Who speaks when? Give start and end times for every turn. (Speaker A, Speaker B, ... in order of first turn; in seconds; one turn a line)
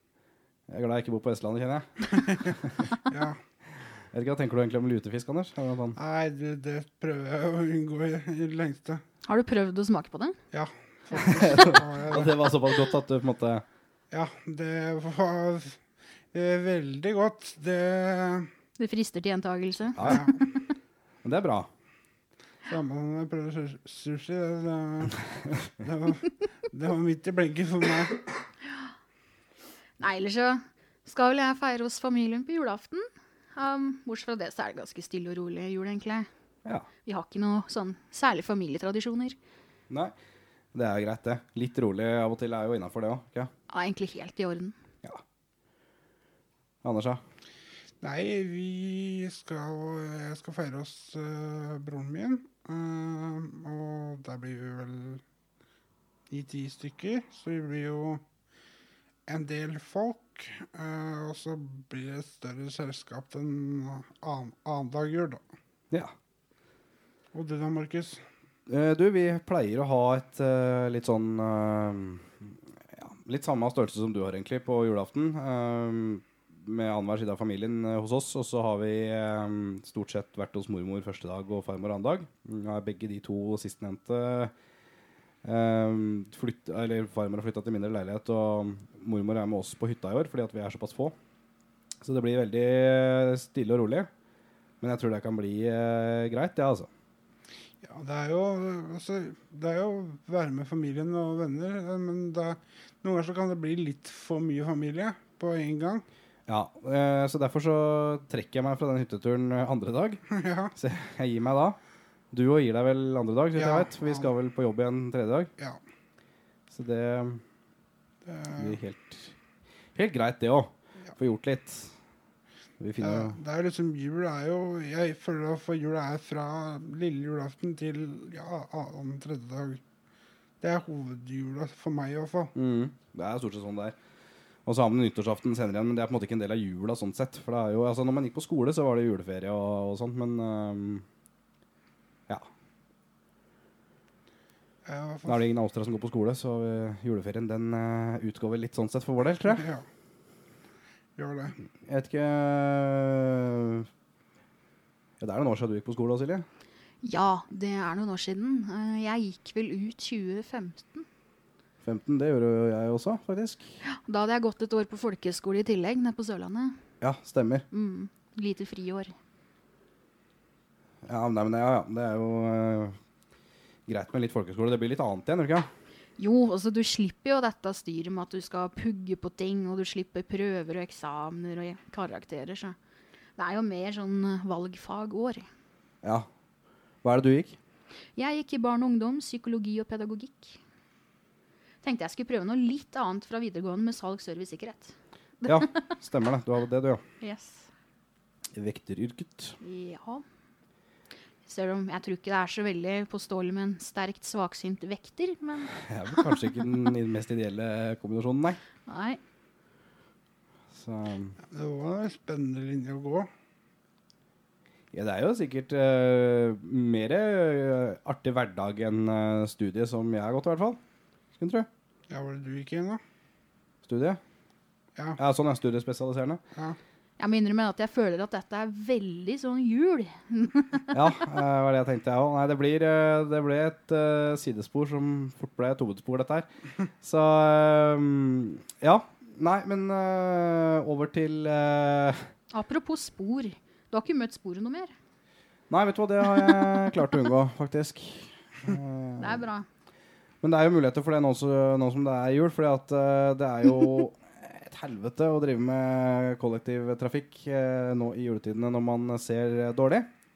Speaker A: 0.7-2.8
Speaker B: 3.1-3.4
Speaker A: 4.1-6.0
Speaker B: 6.0-9.0
Speaker C: 9.3-10.4
Speaker B: 10.5-12.4
Speaker A: 11.3-13.7
Speaker C: 11.4-11.8
Speaker B: 14.1-15.8
Speaker B: 16.3-18.5
Speaker C: 18.8-20.6
Speaker A: 20.0-20.3
Speaker B: 20.0-20.4
Speaker A: 21.2-21.7
Speaker B: 22.7-28.3
Speaker C: 30.0-36.3
Speaker C: 37.0-39.4
Speaker A: 39.9-40.1
Speaker A: 40.7-43.5
Speaker C: 43.7-44.8
Speaker A: 46.8-47.2
Speaker B: 48.0-55.2
Speaker B: 56.3-58.2
Speaker B: 59.3-65.4
Speaker B: 67.3-68.2
Speaker A: 68.7-84.5
Speaker A: 85.4-91.2
Speaker A: 92.0-94.1
Speaker A: 94.8-96.9
Speaker B: 97.8-106.0
Speaker A: 106.5-110.2
Speaker B: 110.3-110.7
Speaker A: 110.8-111.8
Speaker A: 112.3-115.5
Speaker B: 113.6-114.3
Speaker A: 116.7-117.4
Speaker B: 118.3-118.8
Speaker A: 118.6-119.4
Speaker A: 120.0-122.0
Speaker A: 122.8-123.4
Speaker B: 123.0-129.8
Speaker B: 130.6-132.5
Speaker A: 132.6-134.0
Speaker A: 134.7-141.1
Speaker B: 144.8-145.4
Speaker A: 145.3-149.7
Speaker B: 149.4-149.9
Speaker B: 151.2-151.6
Speaker A: 151.8-153.9
Speaker A: 155.2-156.5
Speaker C: 157.0-161.1
Speaker A: 161.8-163.8
Speaker C: 163.8-166.8
Speaker A: 167.0-167.7
Speaker C: 167.7-169.2
Speaker A: 171.0-173.0
Speaker A: 173.9-175.7
Speaker C: 176.2-182.8
Speaker C: 183.4-185.5
Speaker A: 186.0-186.3
Speaker A: 187.0-187.6
Speaker C: 188.2-190.6
Speaker C: 191.8-195.9
Speaker A: 195.4-197.0
Speaker C: 197.2-197.7
Speaker A: 198.5-199.6
Speaker C: 199.6-200.2
Speaker C: 201.4-206.3
Speaker A: 205.8-208.6
Speaker C: 208.9-209.2
Speaker A: 210.7-211.4
Speaker B: 211.5-213.3
Speaker A: 214.9-220.8
Speaker A: 221.4-221.7
Speaker B: 222.1-223.0
Speaker A: 223.8-224.2
Speaker A: 225.2-226.4
Speaker C: 227.2-230.9
Speaker A: 230.9-236.5
Speaker A: 237.0-242.3
Speaker C: 242.5-244.9
Speaker A: 245.7-249.5
Speaker C: 249.2-249.7
Speaker A: 250.4-260.1